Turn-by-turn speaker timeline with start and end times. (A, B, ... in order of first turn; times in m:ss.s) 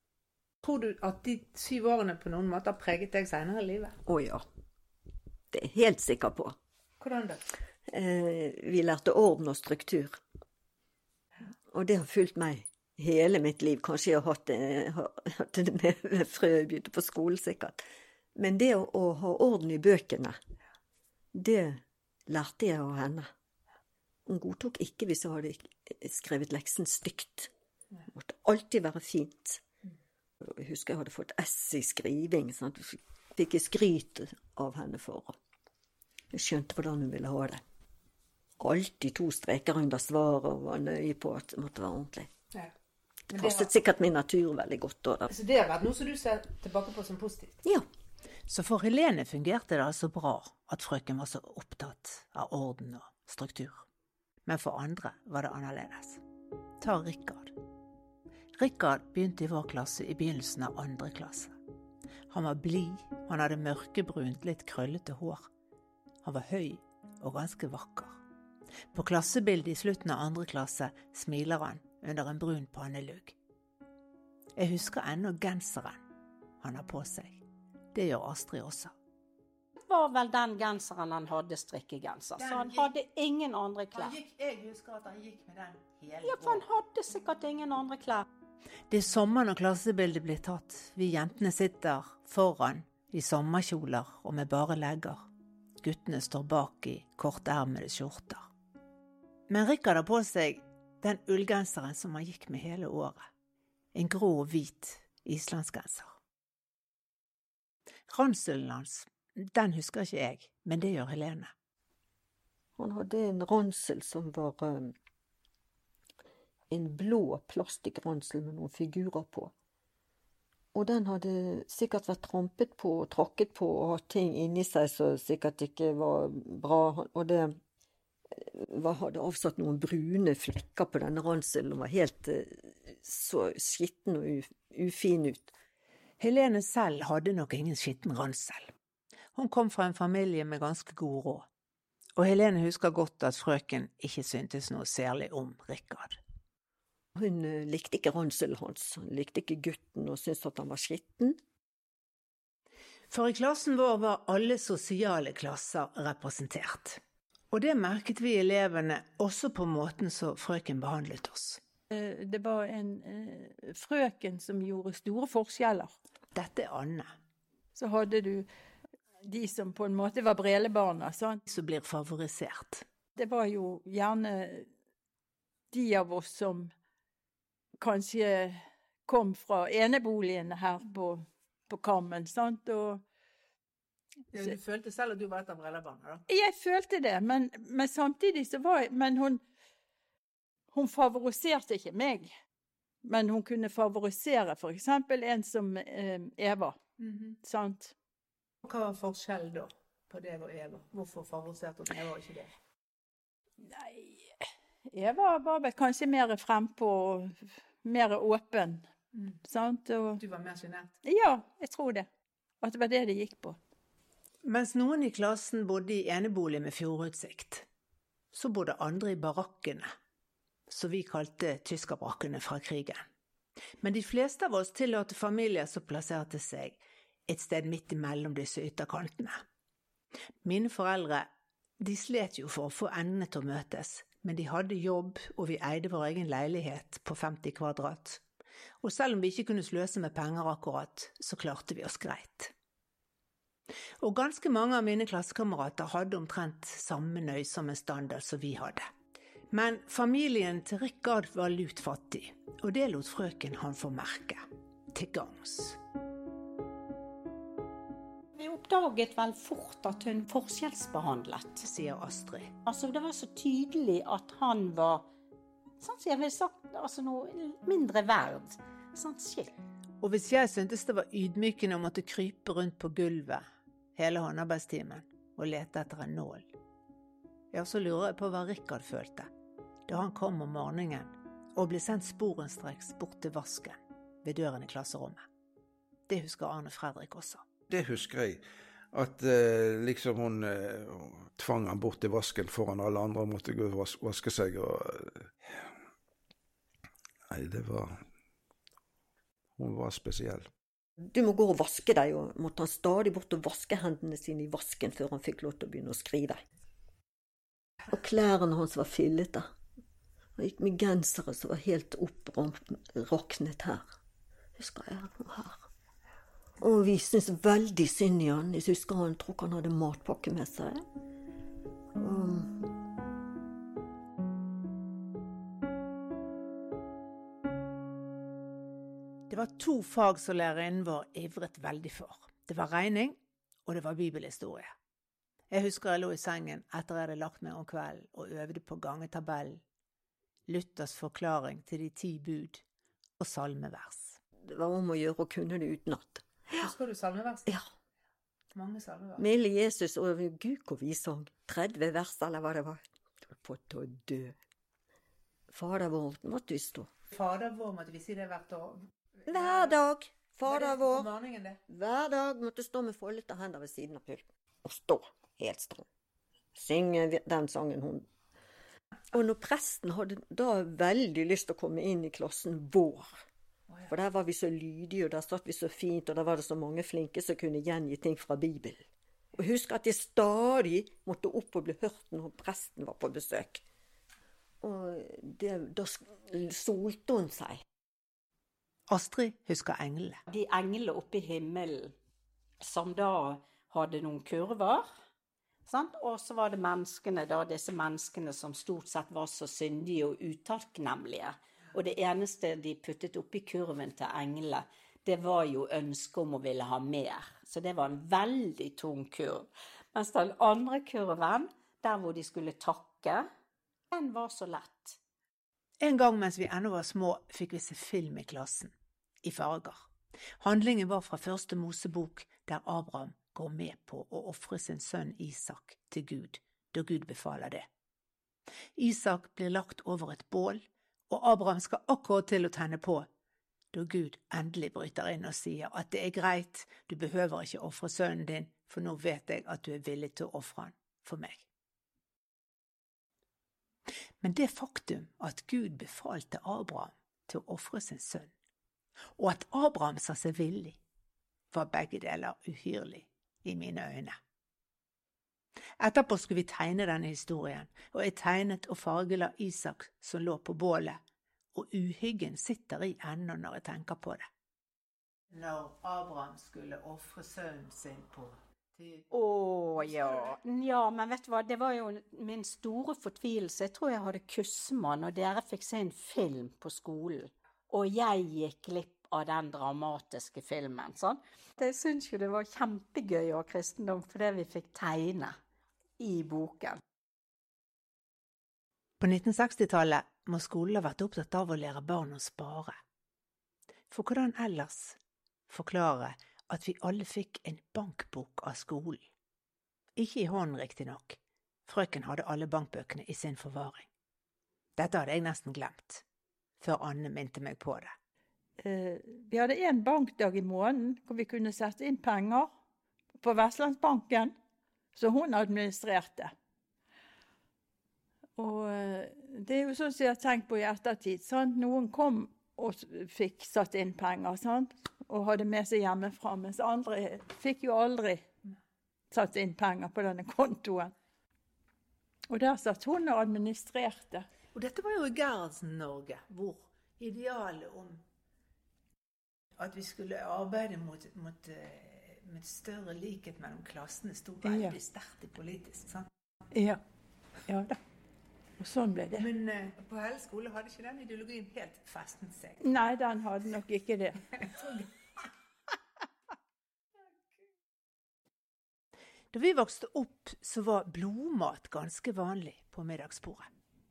0:00.6-0:04.0 A
0:04.1-0:04.4 B
0:05.5-0:06.6 B
0:07.0-0:07.4 A
0:07.9-0:10.2 B
0:11.7-0:17.8 B
0:18.4-0:20.4 B
0:21.3-0:23.3 B
0:24.3-0:27.5 B
0:28.1-0:29.6 B
0:30.4-0:35.3 B
0:36.3-0:37.6 B
0:38.6-0:42.3 B
0:43.3-0:45.3 B
0:43.3-0:43.7 A
0:45.3-0:47.6 A
0:48.5-0:53.8 A
0:54.4-0:56.2 A
0:56.8-0:57.5 A
0:58.6-1:01.6 A
1:02.3-1:05.5 A
1:06.2-1:08.2 A
1:08.9-1:13.4 A
1:14.6-1:16.0 A
1:16.6-1:17.4 A
1:17.9-1:18.9 A
1:19.9-1:24.1 C
1:22.4-1:22.9 A
1:23.9-1:26.6 A
1:26.2-1:28.2 C
1:28.9-1:35.2 A
1:35.8-1:38.4 A
1:39.5-1:43.2 A
1:43.9-1:46.2 A
1:48.1-1:51.5 A
1:52.8-1:54.9 B
1:56.7-1:59.5 B
2:00.7-2:07.6 B
2:08.4-2:15.5 B
2:16.2-2:18.7 A
2:19.3-2:21.4 A
2:22.2-2:26.2 A
2:27.2-2:31.4 B
2:33.1-2:37.0 A
2:37.5-2:41.6 A
2:41.9-2:45.9 D
2:46.3-2:47.1 A
2:47.8-2:48.5 D
2:49.2-2:51.4 D
2:51.5-2:52.8 A
2:53.2-2:54.7 D
2:55.7-2:56.7 D
2:57.8-3:03.0 D
3:04.3-3:06.2 A
3:06.3-3:09.4 D
3:10.7-3:12.3 D
3:13.0-3:16.8 D
3:17.0-3:17.3 A
3:17.4-3:17.9 D
3:18.6-3:22.5 A
3:23.7-3:24.3 D
3:24.9-3:28.9 D
3:29.4-3:30.2 D
3:30.2-3:31.0 A
3:31.0-3:32.1 D
3:32.6-3:33.6 D
3:34.4-3:37.6 A
3:38.3-3:39.9 A
3:40.7-3:43.0 A
3:43.8-3:49.4 A
3:50.4-3:51.3 A
3:51.8-3:58.2 A
3:58.8-4:02.5 A
4:04.0-4:08.8 A
4:09.5-4:14.4 A
4:14.9-4:15.8 A
4:18.4-4:21.6 C
4:21.6-4:22.5 A
4:22.6-4:25.0 C
4:25.8-4:29.5 C
4:30.0-4:33.4 A
4:34.0-4:36.5 A
4:37.5-4:39.3 A
4:39.9-4:45.2 A
4:46.1-4:47.4 A
4:47.7-4:48.4 E
4:48.9-4:55.3 E
4:57.3-4:58.0 E
4:59.6-5:00.5 E
5:01.1-5:06.4 B
5:07.9-5:09.5 B
5:10.4-5:13.9 B
5:14.6-5:15.7 B
5:16.6-5:20.8 B
5:22.0-5:22.7 B
5:29.3-5:34.7 A
5:35.5-5:39.6 A
5:40.5-5:42.6 A
5:43.2-5:44.2 A
5:44.4-5:46.7 B
5:46.6-5:47.5 A
5:48.5-5:49.2 A
5:49.2-5:54.4 B
5:55.5-5:56.9 B
5:57.1-5:59.8 A
5:59.3-6:01.1 B
6:00.4-6:01.6 A
6:01.7-6:05.9 B
6:06.5-6:08.1 B
6:09.1-6:13.1 B
6:13.8-6:18.8 B
6:19.4-6:23.6 B
6:24.6-6:27.6 B
6:28.9-6:30.2 A
6:30.3-6:31.9 C
6:32.6-6:34.9 C
6:35.6-6:53.2 C
6:53.9-6:55.0 C
6:55.8-6:58.7 A
6:59.2-6:59.8 A
7:00.4-7:07.6 A
7:08.8-7:13.1 A
7:13.7-7:21.5 A
7:24.2-7:28.3 A
7:29.2-7:30.8 A
7:31.5-7:34.1 A
7:35.8-7:41.0 A
7:41.5-7:44.2 A
7:45.3-7:49.1 A
7:49.1-8:05.4 C
7:49.8-7:50.4 A
8:06.0-8:06.8 C
8:09.0-8:12.7 A
8:13.9-8:15.0 A
8:15.5-8:19.1 A
8:20.0-8:23.9 A
8:24.8-8:26.0 A
8:26.6-8:27.9 A
8:28.6-8:32.5 D
8:33.2-8:34.4 D
8:34.9-8:36.3 D
8:38.4-8:48.2 D
8:49.1-8:50.9 D
8:52.3-8:54.2 D
8:54.5-8:58.0 A
8:59.6-9:06.0 A
9:04.4-9:04.8 D
9:06.5-9:06.8 D
9:07.5-9:07.8 D
9:08.6-9:09.3 D
9:09.1-9:12.6 A
9:12.6-9:14.6 D
9:19.3-9:23.5 A